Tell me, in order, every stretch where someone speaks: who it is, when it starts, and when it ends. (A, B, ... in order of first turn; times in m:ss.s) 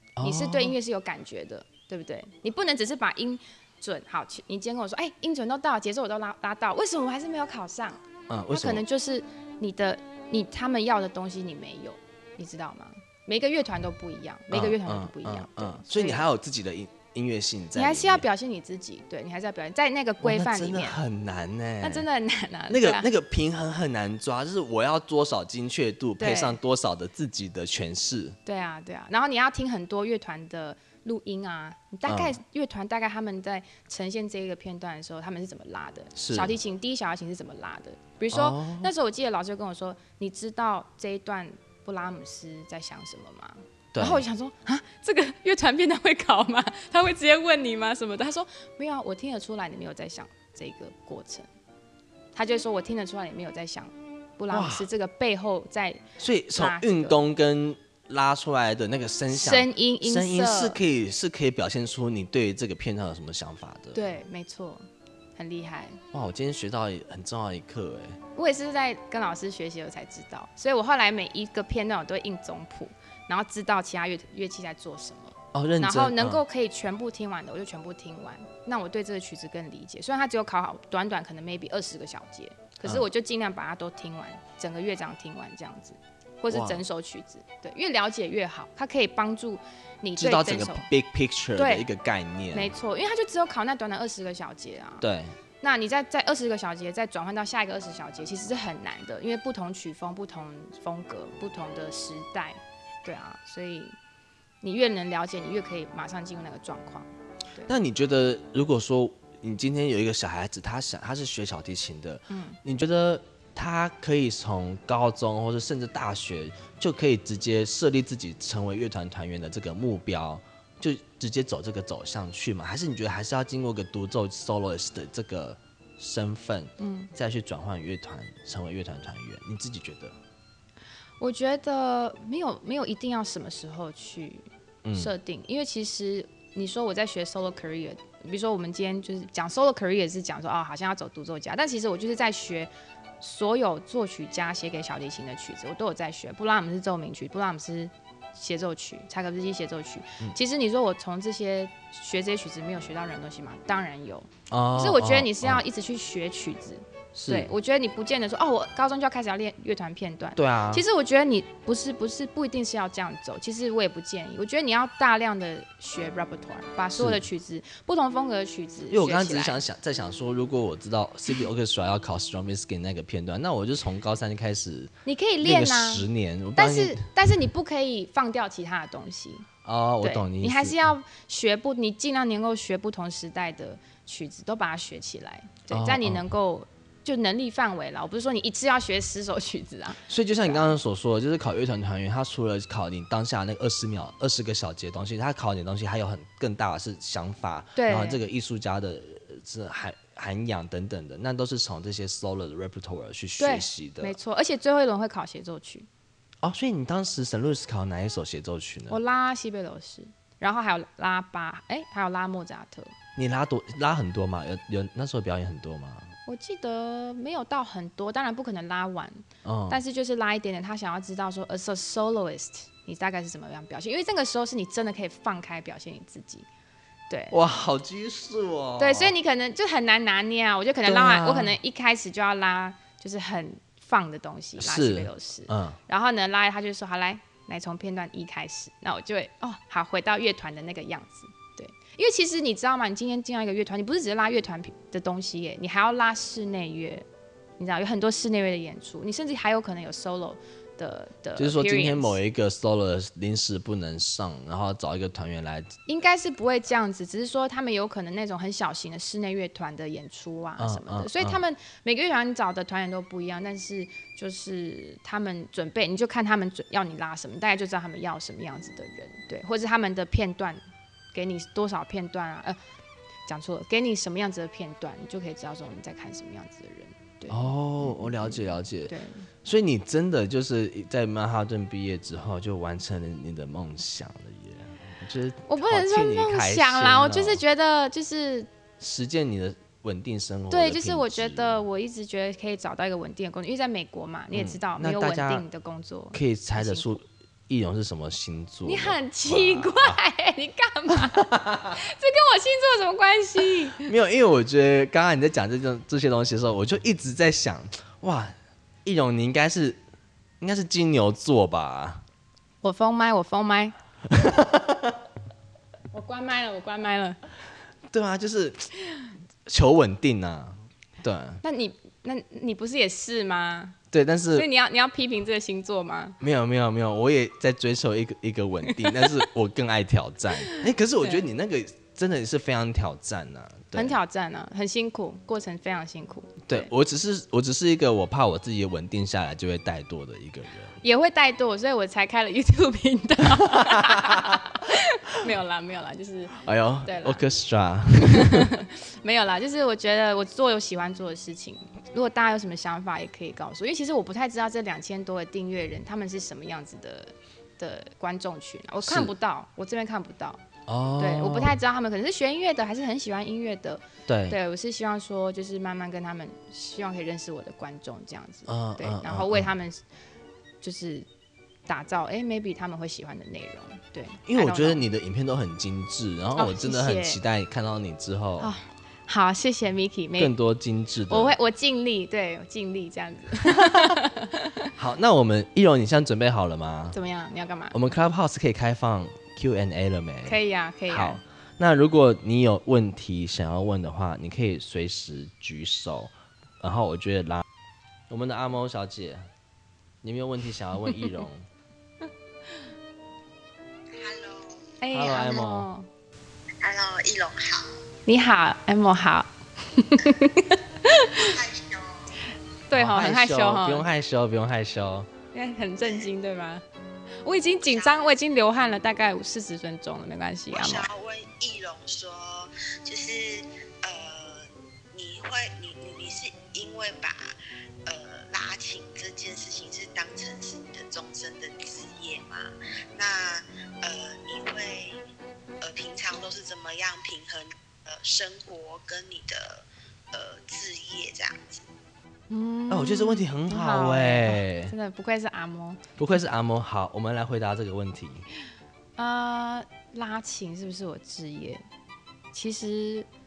0:00.2-0:00.8 A
0:00.2-0:16.2 B
0:08.3-0:08.8 A
0:14.5-0:18.2 A
0:17.7-0:21.0 B
0:20.2-0:22.1 A
0:21.8-0:23.1 B
0:22.7-0:28.4 A
0:26.2-0:26.6 B
0:28.4-0:51.5 B
0:32.1-0:32.3 A
0:36.2-0:36.5 A
0:38.3-0:38.9 A
0:43.9-0:44.2 A
0:52.3-0:56.0 B
0:54.5-0:54.9 A
0:56.2-1:04.0 A
0:56.5-0:57.2 B
0:59.3-1:00.8 B
1:03.9-1:06.0 B
1:06.1-1:08.2 A
1:08.3-1:30.9 B
1:15.5-1:16.4 A
1:26.5-1:26.8 A
1:30.2-1:32.7 A
1:31.6-1:31.9 B
1:32.5-1:35.0 B
1:35.0-1:35.3 A
1:35.6-1:44.0 B
1:44.6-1:47.7 B
1:47.7-2:10.2 A
1:52.3-1:52.6 B
2:06.8-2:07.1 B
2:11.2-2:49.6 B
2:14.8-2:15.1 A
2:34.5-2:35.6 A
2:37.1-2:37.5 A
2:40.4-2:40.8 A
2:48.9-2:57.1 A
2:55.0-2:59.5 B
2:59.6-3:00.8 A
3:00.0-3:10.7 B
3:05.7-3:06.3 A
3:10.1-3:24.2 A
3:17.8-3:18.2 B
3:23.4-3:25.9 B
3:26.4-3:29.0 A
3:28.9-3:32.9 B
3:33.2-3:36.1 A
3:36.2-3:46.5 B
3:39.4-3:39.8 A
3:47.1-3:47.4 B
3:47.3-3:49.1 A
3:48.8-4:07.0 B
3:50.8-3:51.5 A
3:54.6-3:55.8 A
4:07.6-4:12.2 B
4:11.4-4:15.7 A
4:15.9-4:30.6 B
4:20.6-4:21.4 A
4:31.1-4:32.6 B
4:33.3-4:39.3 B
4:37.3-4:47.4 A
4:45.5-4:48.5 B
4:48.8-4:51.6 A
4:50.5-4:57.0 B
4:54.3-4:55.4 A
4:56.1-5:00.0 A
4:58.6-5:03.9 B
5:00.9-5:01.8 A
5:03.6-5:09.8 A
5:10.4-5:12.0 A
5:12.6-5:13.7 B
5:14.1-5:15.0 A
5:15.9-5:17.2 B
5:17.9-5:18.7 A
5:19.4-5:21.4 A
5:21.4-5:23.8 B
5:23.9-5:24.5 A
5:24.3-5:26.2 B
5:26.2-5:34.0 A
5:30.4-5:31.2 B
5:33.7-5:36.7 B
5:36.4-5:40.8 A
5:40.8-5:47.2 B
5:43.4-5:44.5 A
5:46.4-5:48.5 A
5:47.9-6:00.4 B
5:58.8-5:59.1 A
6:00.7-6:01.6 A
6:01.0-6:09.8 B
6:04.1-6:04.4 A
6:08.5-6:09.5 A
6:10.6-6:11.1 B
6:11.7-6:14.8 B
6:14.3-6:18.5 A
6:16.4-6:17.2 B
6:18.4-6:20.3 B
6:20.2-6:21.3 A
6:21.1-6:24.7 B
6:23.4-6:24.0 A
6:24.8-6:27.0 A
6:26.9-6:27.8 B
6:27.7-6:30.4 A
6:30.2-6:31.2 B
6:30.9-6:37.4 A
6:38.1-6:39.3 A
6:40.0-6:41.5 A
6:43.9-6:44.7 C
6:44.8-6:45.9 B
6:44.9-6:45.7 A
6:46.6-6:47.7 C
6:48.0-6:51.4 B
6:51.0-6:52.1 C
6:52.7-6:53.9 B
6:52.7-6:55.1 A
6:55.3-6:56.6 B
6:57.2-7:00.9 B
6:57.6-6:58.1 C
7:00.5-7:15.0 C
7:15.6-7:21.6 C
7:22.3-7:25.8 B
7:22.7-7:24.7 A
7:26.0-7:28.2 A
7:29.0-7:31.6 B
7:32.3-7:33.1 B